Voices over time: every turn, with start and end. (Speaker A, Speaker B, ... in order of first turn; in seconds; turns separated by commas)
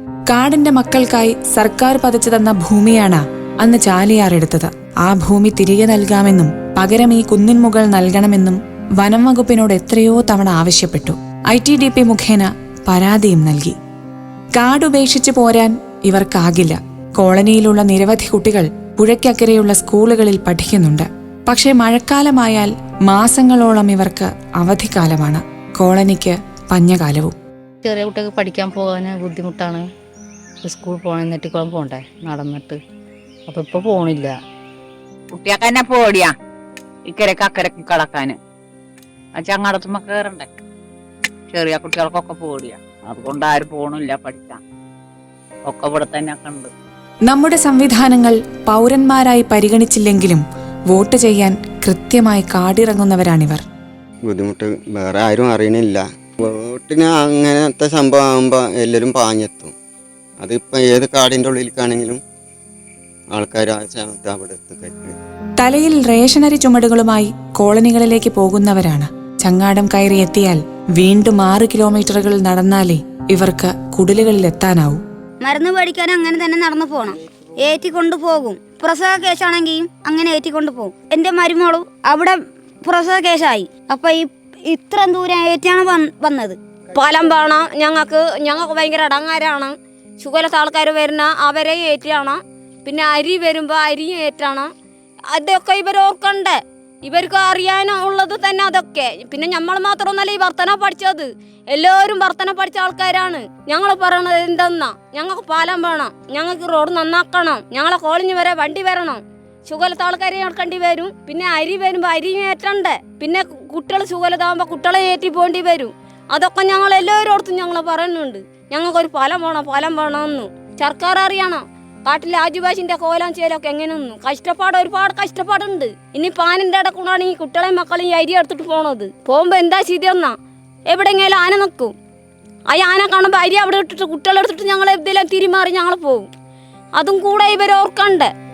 Speaker A: 0.3-13.7, Speaker A: 14.6-27.3, Speaker B: 27.8-29.8, Speaker B: 30.6-32.8, Speaker B: 33.5-34.3, Speaker C: 35.3-36.3, Speaker C: 37.0-38.4, Speaker C: 39.3-40.5, Speaker C: 41.5-44.6, Speaker C: 45.6-46.7, Speaker A: 47.3-53.6, Speaker D: 54.2-59.7, Speaker D: 60.4-62.2, Speaker D: 63.3-65.1, Speaker A: 65.6-75.0, Speaker E: 75.4-86.6, Speaker F: 86.9-94.7, Speaker F: 95.3-130.3, Speaker F: 130.9-131.9, Speaker F: 132.7-136.3, Speaker F: 137.0-138.3